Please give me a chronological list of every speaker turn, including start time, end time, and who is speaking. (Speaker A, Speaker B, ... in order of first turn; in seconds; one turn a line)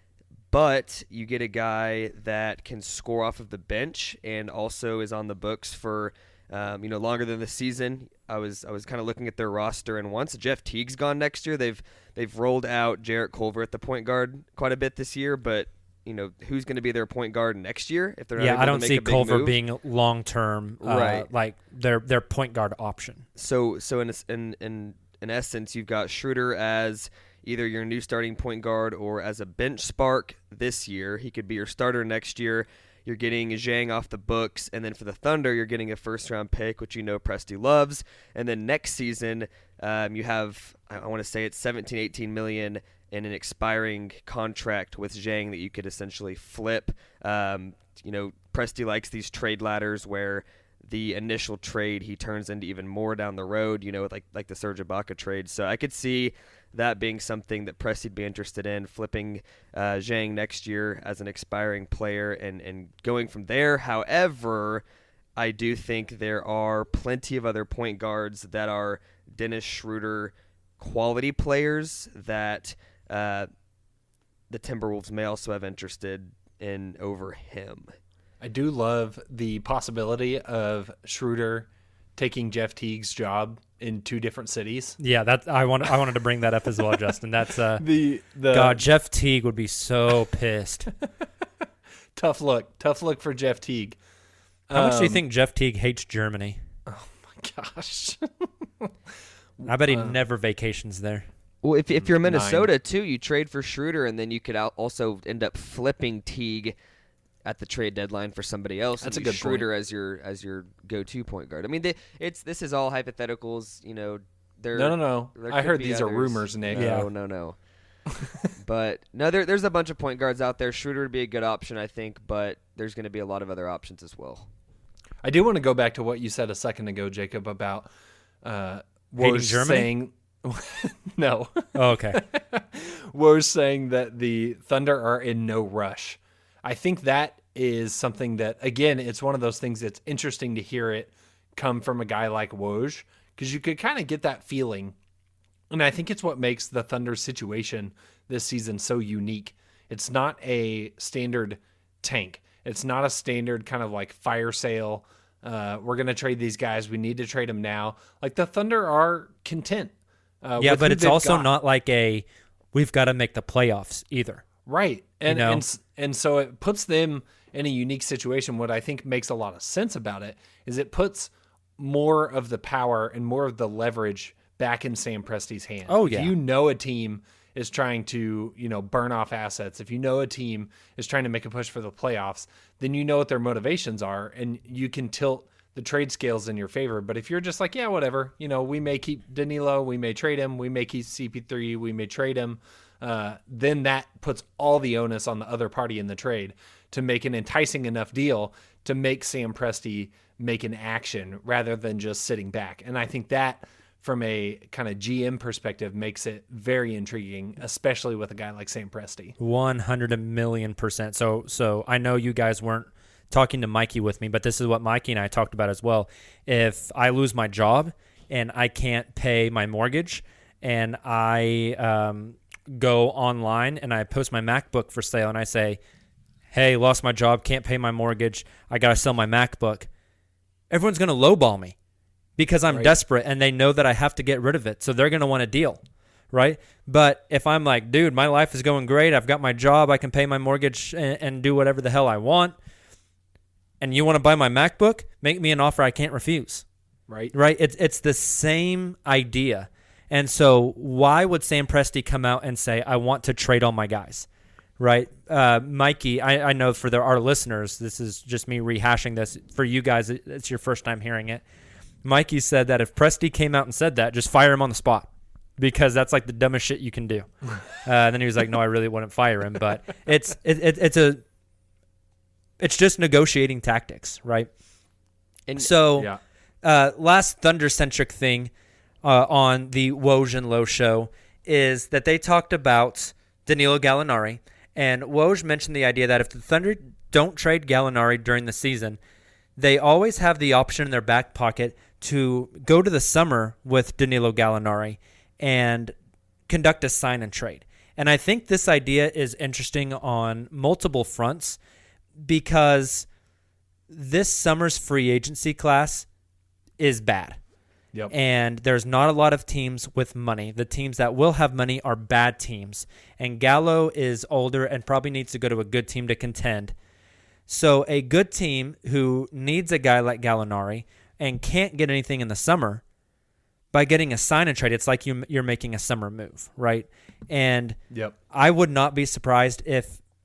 Speaker A: 0.5-19.6
Speaker B: 18.4-23.3
Speaker A: 20.8-21.3
Speaker A: 23.4-64.8
Speaker A: 65.4-73.5
Speaker A: 74.5-77.9
Speaker C: 78.4-85.0
Speaker B: 85.0-87.8
Speaker C: 86.8-87.1
Speaker C: 87.8-88.9
Speaker B: 88.5-90.9
Speaker C: 92.2-94.0
Speaker C: 94.7-95.2
Speaker B: 94.7-96.6
Speaker C: 96.9-98.9
Speaker C: 99.6-100.2
Speaker B: 99.7-101.3
Speaker A: 101.6-106.8
Speaker C: 102.0-102.7
Speaker A: 107.5-117.6
Speaker C: 109.0-109.7
Speaker C: 114.7-117.0
Speaker B: 116.8-117.1
Speaker A: 118.6-124.5
Speaker C: 125.2-127.9
Speaker C: 128.4-144.9
Speaker B: 129.2-129.9
Speaker B: 131.7-132.2
Speaker C: 145.7-161.5
Speaker B: 160.6-164.4
Speaker C: 164.7-209.3
Speaker B: 165.3-165.6
Speaker B: 175.9-176.4
Speaker B: 209.4-225.8
Speaker B: 226.5-229.9
Speaker B: 230.7-231.8
Speaker B: 232.4-235.8
Speaker C: 232.7-233.0
Speaker B: 236.3-242.6
Speaker B: 243.8-246.6
Speaker C: 247.1-247.3
Speaker B: 247.3-254.3
Speaker B: 254.8-261.4
Speaker B: 262.0-271.2
Speaker B: 272.6-274.5
Speaker B: 275.6-276.1
Speaker B: 276.6-278.5
Speaker B: 279.0-289.0
Speaker B: 289.6-295.9
Speaker B: 296.5-301.6
Speaker B: 302.2-303.1
Speaker B: 303.9-306.1
Speaker B: 306.8-307.4
Speaker B: 308.1-316.8
Speaker B: 317.5-322.8
Speaker B: 323.7-327.8
Speaker B: 328.3-330.0